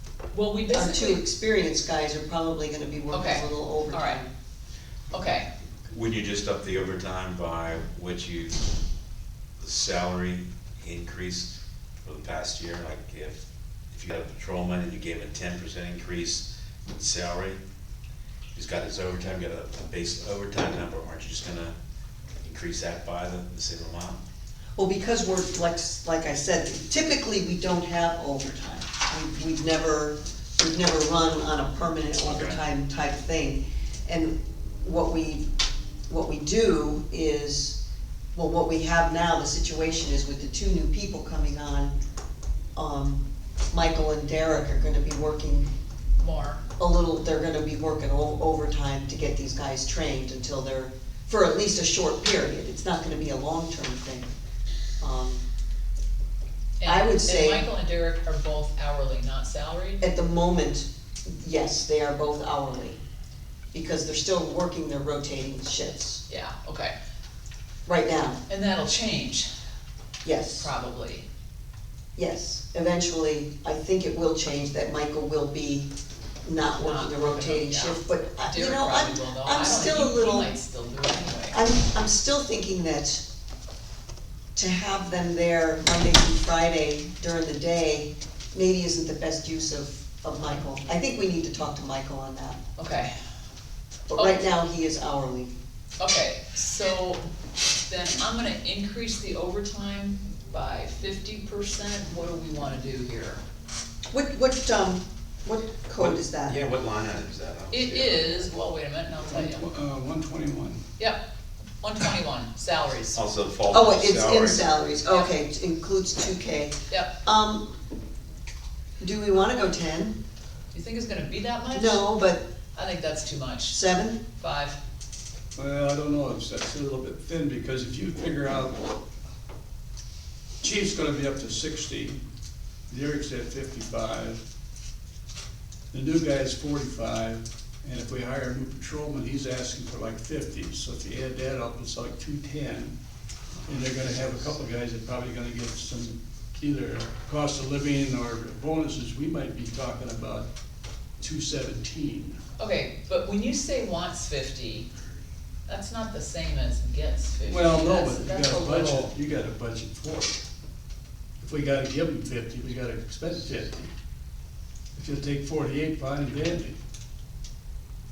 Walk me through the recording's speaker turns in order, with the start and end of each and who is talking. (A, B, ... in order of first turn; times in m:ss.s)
0:00.3-0:01.2 A
0:00.7-0:04.3 B
0:03.1-0:04.2 A
0:05.1-0:05.5 A
0:05.9-0:08.6 C
0:09.6-0:11.5 C
0:12.0-0:17.6 C
0:18.5-0:21.7 C
0:22.4-0:24.2 C
0:24.8-0:35.5 B
0:32.2-0:32.6 C
0:36.1-0:37.8 B
0:38.3-0:41.9 B
0:42.8-0:45.7 B
0:46.2-0:46.6 A
0:46.8-0:54.3 B
0:55.0-0:55.4 B
0:56.8-1:00.0 A
0:56.8-0:57.6 B
1:00.0-1:03.0 B
1:03.7-1:06.2 B
1:06.3-1:06.9 A
1:07.8-1:08.4 B
1:08.5-1:09.5 A
1:10.2-1:10.7 B
1:10.6-1:11.2 A
1:12.2-1:15.9 B
1:16.4-1:20.5 B
1:16.8-1:21.6 A
1:21.5-1:23.2 B
1:24.5-1:32.6 B
1:32.8-1:33.1 A
1:34.1-1:35.5 B
1:36.0-1:37.2 A
1:37.9-1:43.4 A
1:44.1-1:46.6 B
1:46.0-1:48.5 C
1:47.7-1:49.6 A
1:49.3-1:50.8 D
1:51.8-1:53.2 A
1:53.1-1:54.6 C
1:53.7-1:57.7 B
1:59.0-2:00.2 B
2:00.7-2:02.1 A
2:01.7-2:02.4 B
2:02.7-2:03.8 A
2:03.7-2:04.2 B
2:04.4-2:04.8 A
2:05.6-2:08.8 D
2:10.6-2:12.2 D
2:12.9-2:14.4 D
2:15.9-2:23.0 D
2:23.5-2:24.6 C
2:23.6-2:30.5 D
2:31.2-2:32.4 D
2:32.6-2:34.9 A
2:35.7-2:39.1 A
2:37.5-2:40.4 D
2:41.4-2:43.9 D
2:44.9-2:46.8 D